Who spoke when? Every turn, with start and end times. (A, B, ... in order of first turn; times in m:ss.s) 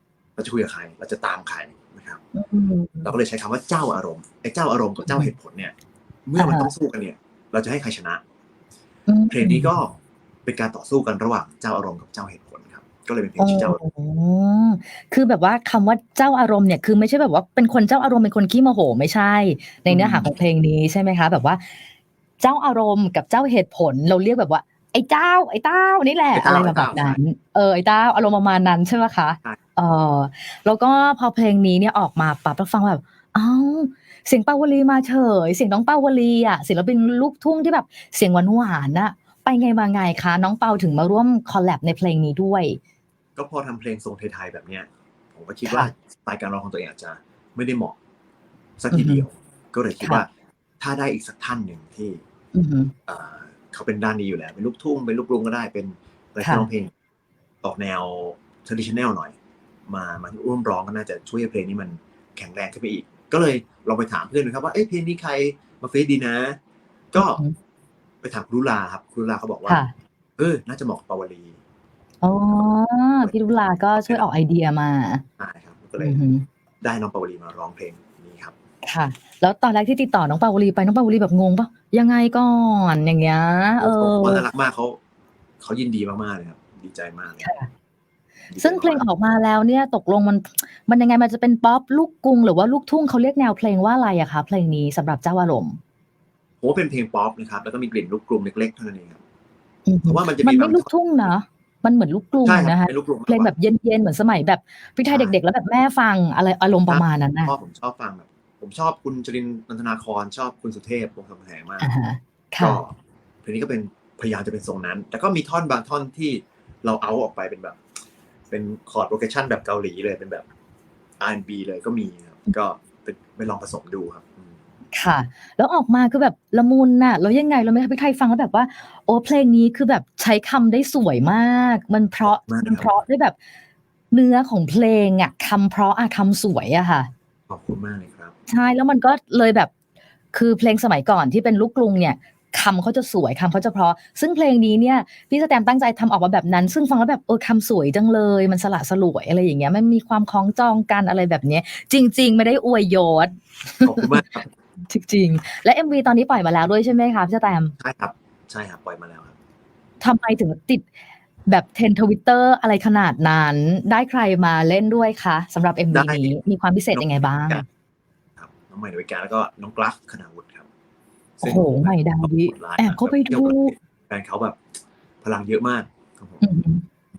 0:00.4-0:02.2 A
0:02.3-0:03.1 B
0:03.0-0:05.7 A
0:06.3-0:08.2 A
0:06.4-0:06.7 B
0:09.1-0:09.7 B
0:09.3-0:13.8 A
0:13.4-0:21.7 B
0:19.9-0:20.4 A
0:22.4-0:42.8 B
0:26.3-0:27.2 A
0:43.4-0:48.0 A
0:45.7-0:45.9 B
0:48.8-0:50.3 A
0:48.9-0:49.2 B
0:50.8-0:52.2 A
0:52.5-0:52.9 B
0:53.1-0:56.9 A
0:57.6-0:59.4 A
0:59.9-1:06.6 A
1:07.1-1:07.4 A
1:07.2-1:07.6 B
1:08.2-1:09.8 A
1:09.7-1:09.9 B
1:10.4-1:11.6 A
1:12.2-1:15.2 B
1:13.9-1:14.2 A
1:15.4-1:16.2 A
1:16.0-1:16.5 B
1:16.8-1:18.5 A
1:18.8-1:24.5 B
1:23.8-1:25.0 A
1:25.6-1:27.5 A
1:27.4-1:27.7 B
1:28.5-1:29.0 A
1:28.6-1:35.8 B
1:36.6-1:39.2 A
1:39.9-1:47.5 B
1:40.1-1:40.9 A
1:42.4-1:43.5 A
1:45.1-1:45.4 A
1:46.9-1:51.9 A
1:51.8-1:52.8 B
1:52.6-1:57.8 A
1:58.5-2:00.4 A
2:01.2-2:04.5 A
2:04.9-2:13.4 B
2:12.2-2:12.9 A
2:14.1-2:17.1 B
2:17.5-2:18.3 A
2:18.5-2:19.7 B
2:20.3-2:34.2 B
2:33.8-2:34.5 A
2:34.9-2:37.7 B
2:37.8-2:39.3 A
2:40.0-2:40.9 B
2:41.5-2:47.6 B
2:45.9-2:46.3 A
2:46.9-2:47.6 A
2:48.4-2:50.7 A
2:51.4-2:54.6 A
2:51.4-2:53.7 B
2:55.2-2:56.4 A
2:56.4-2:56.8 B